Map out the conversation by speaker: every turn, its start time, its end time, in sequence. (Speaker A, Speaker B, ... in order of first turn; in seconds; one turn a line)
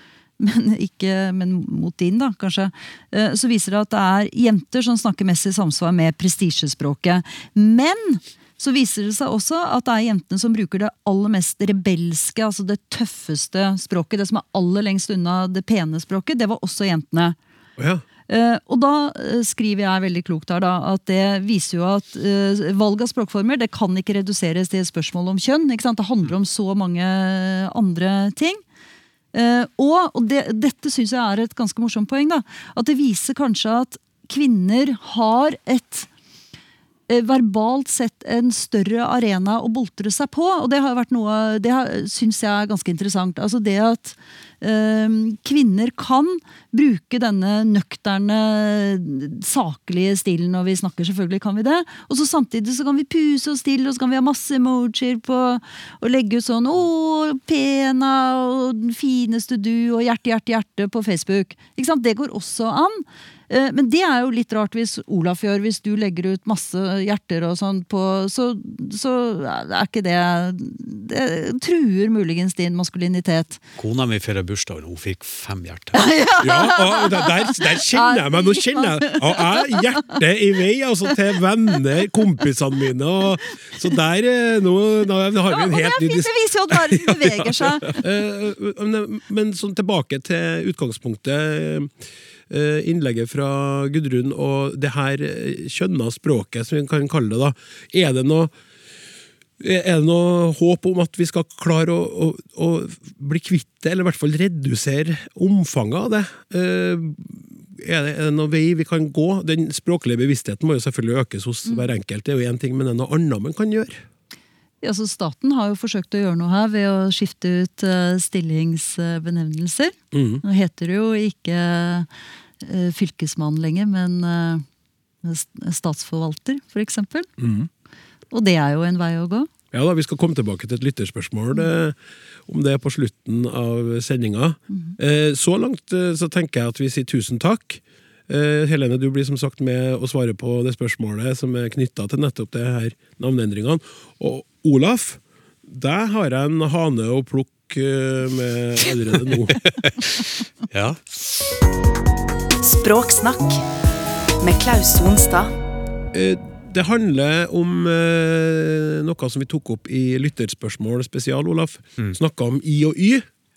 Speaker A: 0.4-17.4
Speaker B: 17.8-18.0
Speaker A: 18.3-28.6
Speaker A: 29.3-36.1
Speaker A: 37.1-73.6
Speaker C: 73.8-76.0
Speaker A: 75.9-79.8
Speaker B: 76.4-91.9
Speaker A: 85.5-88.0
Speaker B: 92.5-98.5
Speaker B: 99.6-114.0
Speaker A: 114.8-122.1
Speaker B: 120.1-120.4
Speaker A: 122.6-124.6
Speaker A: 125.2-127.3
Speaker B: 127.4-127.7
Speaker A: 128.3-129.5
Speaker B: 129.7-131.9
Speaker B: 132.5-149.6
Speaker C: 149.8-151.2
Speaker D: 152.6-153.6
Speaker D: 154.4-155.5
Speaker B: 156.1-163.2